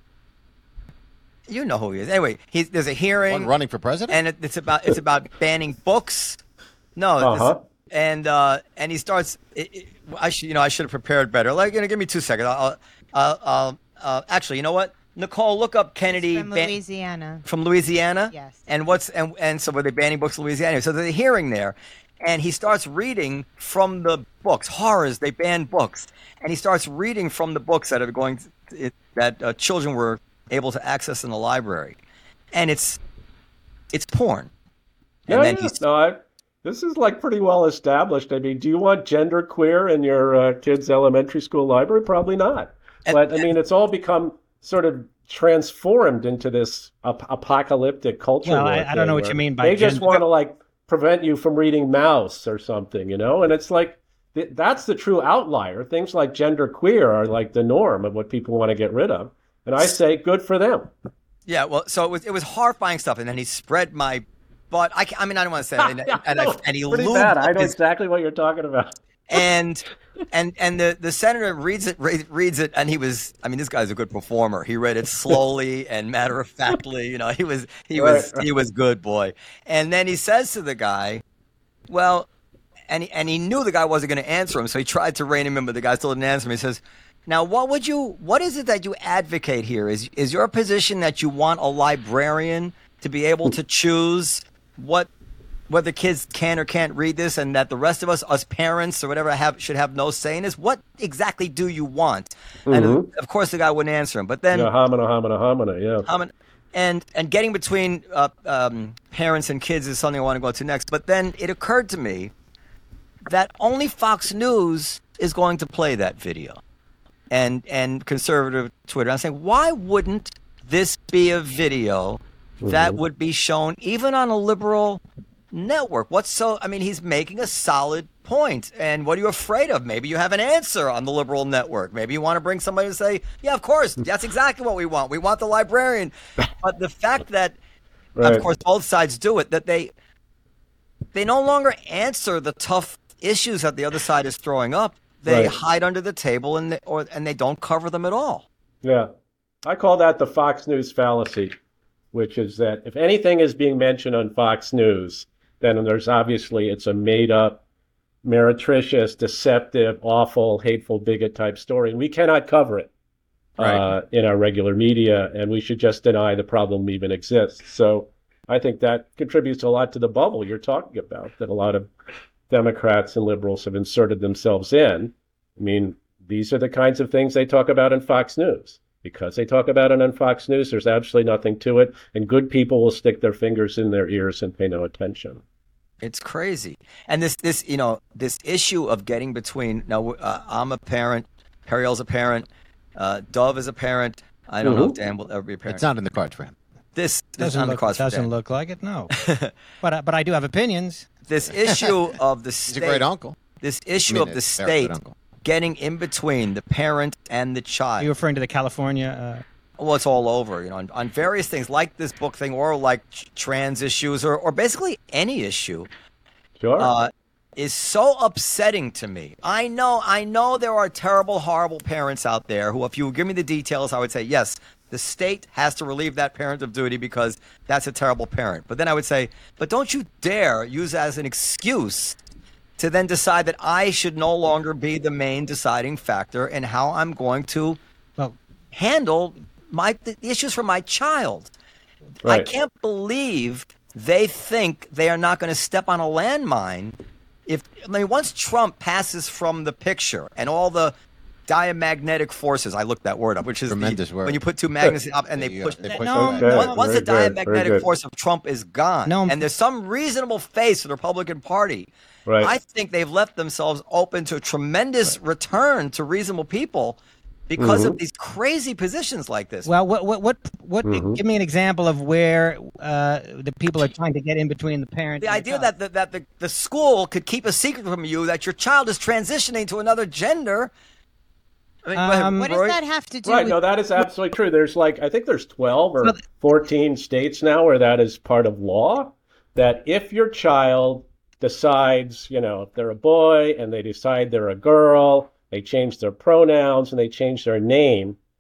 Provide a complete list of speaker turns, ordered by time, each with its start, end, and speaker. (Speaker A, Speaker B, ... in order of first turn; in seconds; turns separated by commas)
Speaker A: 1.5-3.5, Speaker B: 3.3-4.2, Speaker A: 4.1-6.4, Speaker A: 7.0-16.8, Speaker C: 7.2-7.6, Speaker D: 16.1-17.4, Speaker A: 17.4-32.0, Speaker D: 18.3-18.6, Speaker A: 32.5-33.0, Speaker A: 33.9-34.5, Speaker A: 35.3-35.8, Speaker C: 35.3-60.9, Speaker A: 43.0-43.5, Speaker E: 48.4-50.2, Speaker A: 61.5-67.7, Speaker C: 65.8-69.4, Speaker A: 69.3-81.2, Speaker C: 78.0-78.5, Speaker A: 81.9-82.3, Speaker A: 82.9-95.1, Speaker A: 95.7-104.7, Speaker C: 102.7-103.1, Speaker C: 104.5-106.1, Speaker A: 106.0-112.3, Speaker A: 113.3-116.6, Speaker A: 117.3-125.0, Speaker C: 122.6-123.0, Speaker A: 125.5-137.6, Speaker C: 138.2-138.4, Speaker A: 138.2-139.9, Speaker A: 141.1-148.4, Speaker C: 145.3-145.6, Speaker C: 148.8-149.1, Speaker C: 149.6-151.6, Speaker C: 152.1-157.6, Speaker C: 158.2-162.9, Speaker C: 163.6-171.9, Speaker A: 163.6-163.9, Speaker C: 172.5-185.4, Speaker A: 186.0-195.8, Speaker C: 194.6-195.0, Speaker B: 195.7-196.6, Speaker A: 196.9-198.3, Speaker E: 197.4-199.1, Speaker A: 199.1-199.5, Speaker E: 199.8-201.1, Speaker A: 201.3-203.1, Speaker B: 201.5-201.9, Speaker B: 202.7-203.4, Speaker A: 203.6-208.1, Speaker B: 204.1-205.1, Speaker E: 208.0-209.4, Speaker A: 209.8-215.9, Speaker C: 216.6-216.9, Speaker A: 216.8-232.2, Speaker A: 232.8-237.8, Speaker A: 238.7-241.5, Speaker C: 242.2-242.5, Speaker A: 242.2-246.9, Speaker A: 247.5-250.9, Speaker A: 251.5-267.0, Speaker B: 253.7-254.4, Speaker B: 255.1-256.7, Speaker E: 255.9-256.6, Speaker C: 256.3-257.9, Speaker E: 259.1-259.4, Speaker C: 262.3-262.5, Speaker A: 267.5-269.7, Speaker C: 267.6-268.0, Speaker E: 269.6-275.7, Speaker C: 270.8-271.2, Speaker A: 275.2-280.7, Speaker A: 281.8-282.8, Speaker E: 281.9-282.4, Speaker D: 282.4-283.6, Speaker C: 283.2-298.2